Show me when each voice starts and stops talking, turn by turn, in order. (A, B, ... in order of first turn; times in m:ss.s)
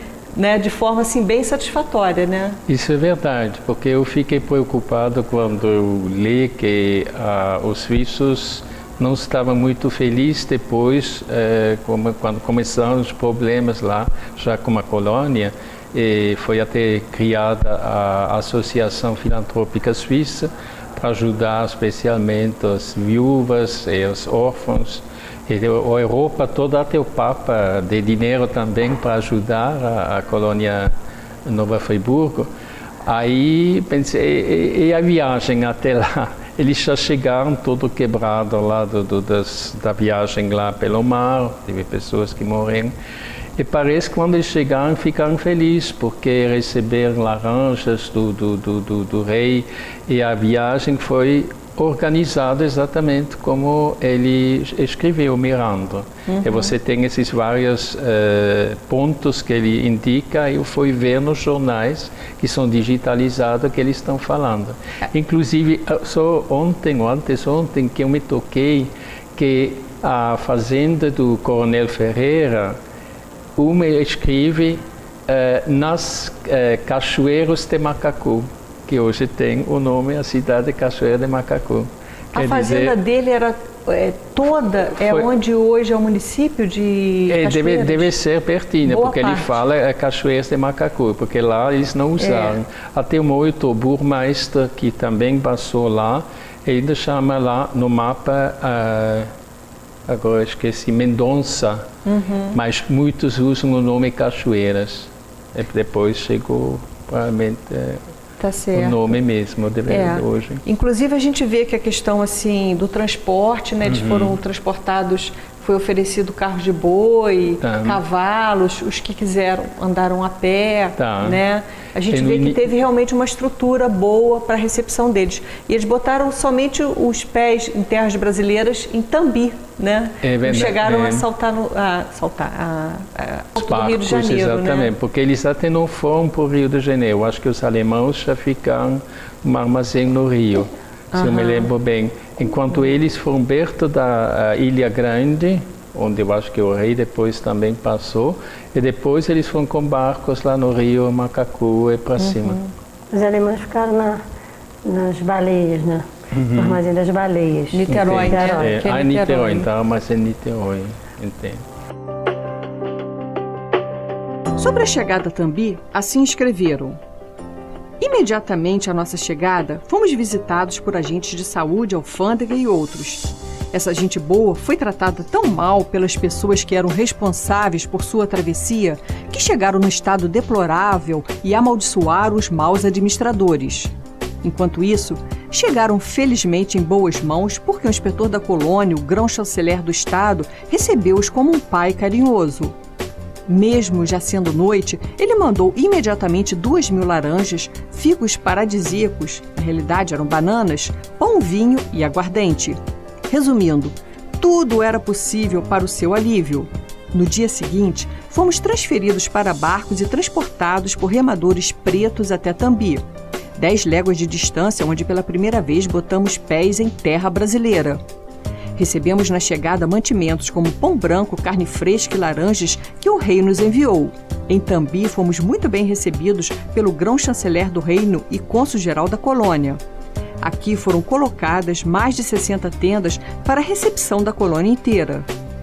0:00.4-0:02.6 A
0:02.7-0:30.9 B
0:31.5-0:32.5 B
0:33.1-0:42.9 B
0:43.6-1:12.8 B
1:13.6-1:23.0 B
1:22.3-1:28.1 A
1:27.3-1:39.3 B
1:28.8-1:29.6 A
1:32.2-1:32.6 A
1:40.1-1:41.8 B
1:42.1-1:42.6 A
1:42.5-1:48.0 B
1:48.4-1:49.1 A
1:48.7-1:50.6 B
1:49.9-2:14.9 A
1:53.9-1:54.4 B
1:57.6-1:58.0 B
2:01.0-2:01.4 B
2:02.1-2:02.6 B
2:10.2-2:11.3 B
2:13.6-2:32.6 B
2:21.1-2:21.7 A
2:32.2-2:32.7 A
2:33.1-2:34.2 C
2:34.8-2:38.7 C
2:36.4-2:36.8 B
2:37.7-2:39.7 A
2:37.9-2:41.6 B
2:44.6-2:47.0 D
2:48.0-3:03.9 D
3:04.4-3:12.7 D
3:13.5-3:22.8 D
3:23.3-3:33.0 D
3:33.6-3:38.0 D
3:38.8-3:49.8 D
3:50.4-3:55.2 D